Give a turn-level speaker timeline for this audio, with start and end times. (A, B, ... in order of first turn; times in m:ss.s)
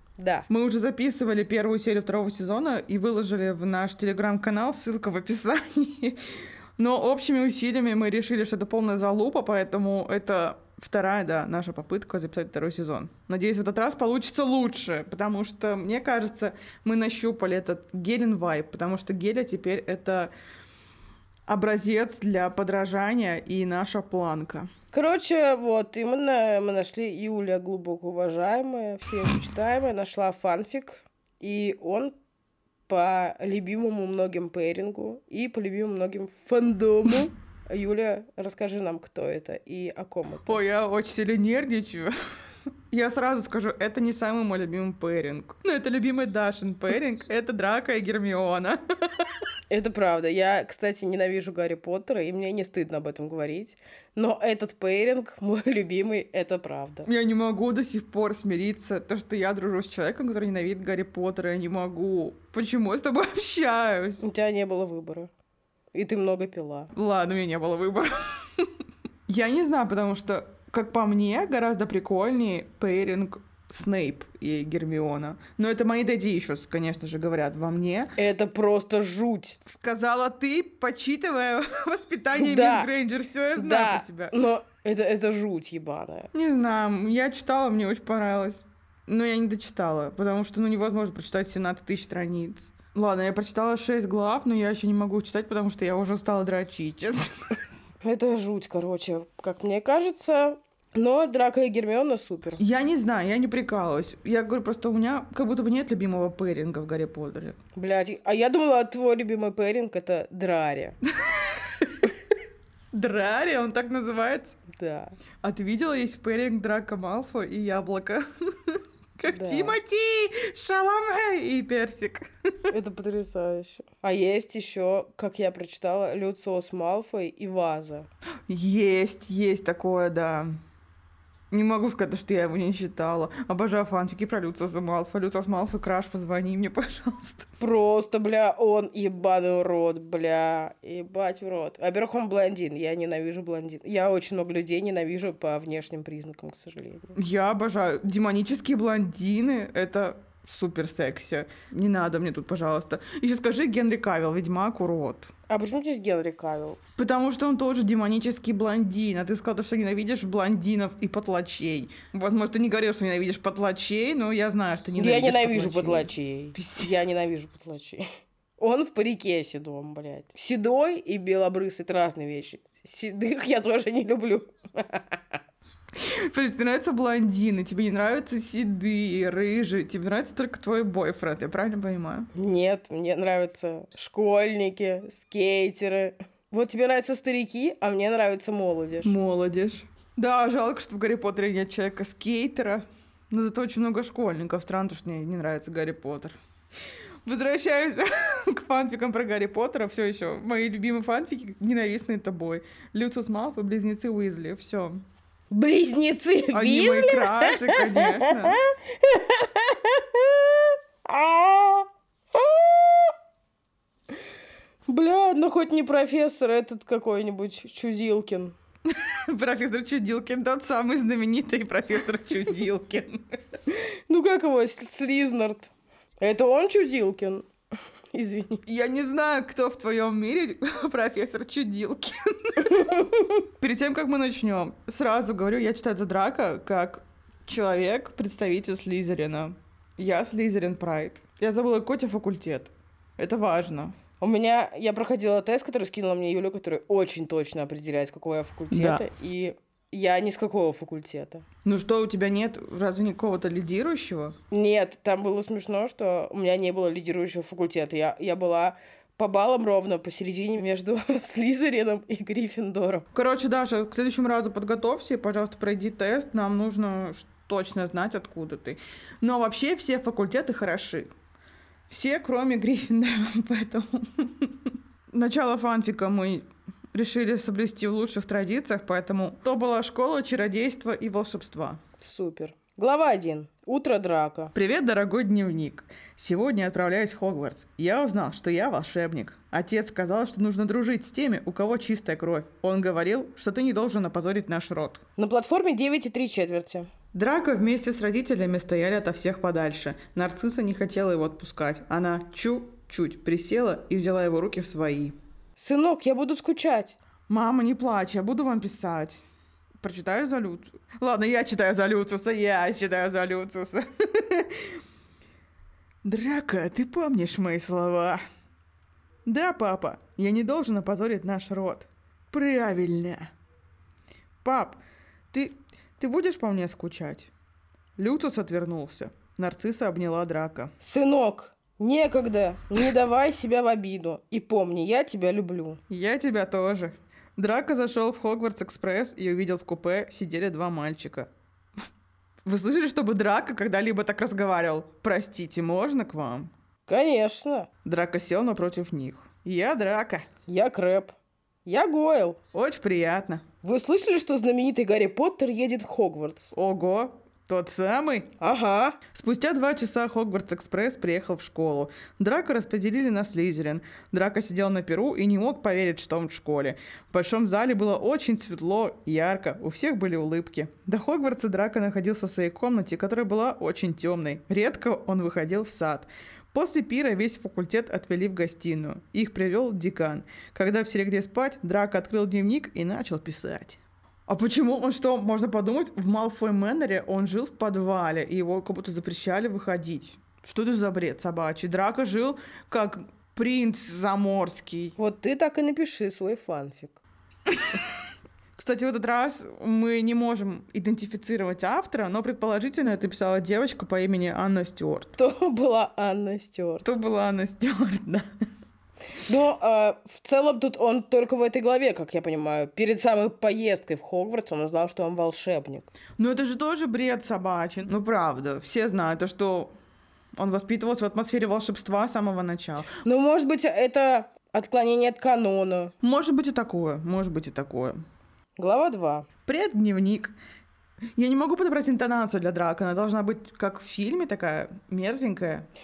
0:00.2-0:00.5 A
0:00.5-0:20.3 B
0:21.5-0:24.7 B
0:24.9-0:32.1 A
0:32.9-0:40.6 A
0:40.4-0:42.1 B
0:42.9-0:49.2 B
0:49.7-0:57.1 A
0:57.0-1:04.2 B
1:04.2-1:05.3 A
1:05.9-1:06.9 A
1:06.9-1:08.7 B
1:09.3-1:18.1 B
1:18.2-1:19.6 A
1:19.6-1:24.3 B
1:22.3-1:22.9 A
1:23.5-1:26.3 A
1:26.3-1:37.3 B
1:38.0-1:42.6 A
1:42.6-1:47.6 B
1:47.7-1:51.0 A
1:51.2-1:52.1 B
1:52.9-1:54.6 B
1:54.7-1:55.1 A
1:55.4-2:02.7 B
1:59.3-1:59.8 A
2:02.7-2:08.1 A
2:08.5-2:10.5 B
2:11.5-2:17.5 B
2:17.6-2:27.2 A
2:27.1-2:35.3 B
2:35.5-2:36.8 A
2:37.0-2:47.0 B
2:45.0-2:48.0 A
2:48.6-2:55.4 A
2:56.0-3:02.3 B
3:02.3-3:09.1 A
3:09.0-3:16.4 B
3:17.2-3:25.0 B
3:25.5-3:33.1 A
3:26.5-3:28.6 B
3:34.9-3:38.5 A
3:38.9-3:43.2 B
3:43.7-3:47.5 A
3:48.1-3:48.6 A
3:48.6-3:53.0 B
3:52.6-3:53.4 A
3:53.6-4:04.0 B
4:04.2-4:11.4 A
4:08.7-4:09.0 B
4:11.6-4:14.4 B
4:14.5-4:23.0 A
4:23.1-4:31.1 B
4:31.9-4:34.6 B
4:35.1-4:41.8 B
4:42.0-4:44.5 A
4:44.5-4:55.0 B
4:55.2-4:56.9 A
4:57.1-5:05.2 B
5:05.6-5:07.0 A
5:07.3-5:09.2 B
5:09.8-5:14.7 B
5:16.0-5:18.2 B
5:19.2-5:23.3 B
5:24.4-5:24.8 B
5:25.3-5:27.3 B
5:28.0-5:30.7 B
5:30.8-5:35.8 A
5:35.9-5:41.3 B
5:42.4-5:46.5 B
5:46.9-5:47.7 A
5:47.8-5:50.3 B
5:50.5-5:52.4 A
5:52.5-5:53.4 B
5:53.6-5:56.5 A
5:56.5-5:58.3 B
5:58.4-5:59.0 A
5:59.1-6:35.0 B
6:35.0-6:37.0 A
6:37.5-6:37.8 B
6:38.6-6:45.2 B
6:45.2-6:46.8 A
6:46.8-6:48.3 B
6:49.2-6:55.9 A
6:56.2-6:59.7 B
7:00.4-7:03.0 B
7:03.0-7:05.9 A
7:06.0-7:08.0 B
7:08.6-7:09.3 A
7:09.4-7:10.3 B
7:11.2-7:15.7 B